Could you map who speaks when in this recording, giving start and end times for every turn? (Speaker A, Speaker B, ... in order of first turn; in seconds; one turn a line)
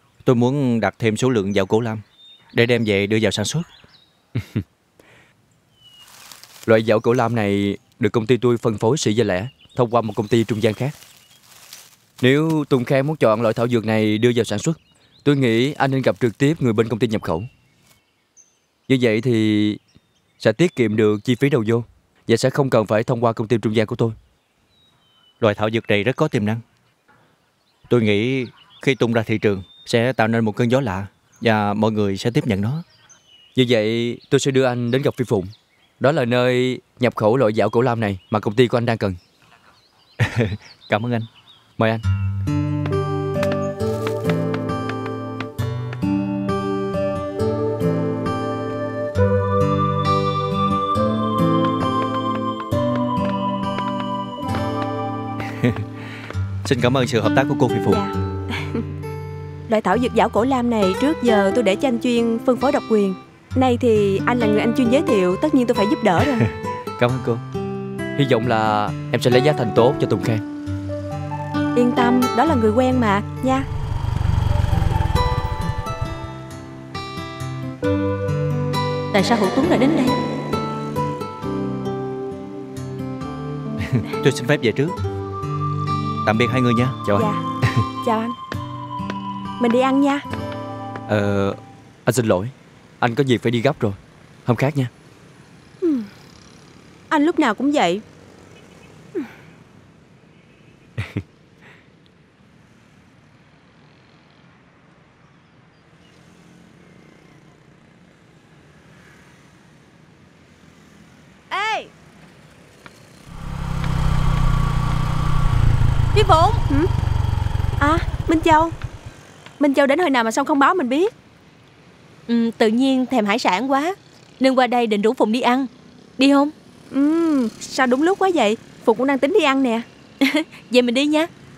Speaker A: 0.2-2.0
Speaker A: 2.5-3.7
Speaker B: 4.4-4.6
Speaker B: 6.7-10.9
Speaker B: 12.2-17.5
Speaker B: 18.9-19.8
Speaker B: 20.4-24.1
Speaker A: 25.4-26.6
Speaker A: 27.9-32.8
Speaker B: 33.5-39.2
Speaker A: 40.2-41.3
Speaker B: 41.8-42.0
Speaker A: 55.6-55.9
Speaker A: 56.6-58.0
Speaker C: 57.9-58.8
Speaker C: 59.7-66.4
Speaker B: 67.0-67.4
Speaker B: 68.2-70.4
Speaker C: 71.8-73.7
Speaker D: 79.1-80.2
Speaker A: 83.9-84.9
Speaker A: 86.2-87.3
Speaker C: 87.1-87.4
Speaker C: 88.0-88.3
Speaker C: 89.6-90.2
Speaker B: 91.1-94.9
Speaker C: 95.8-96.1
Speaker C: 97.1-98.0
Speaker C: 111.5-111.9
Speaker D: 116.1-116.6
Speaker C: 117.8-118.7
Speaker C: 119.6-121.1
Speaker D: 122.3-126.5
Speaker C: 126.9-129.8
Speaker D: 130.2-131.3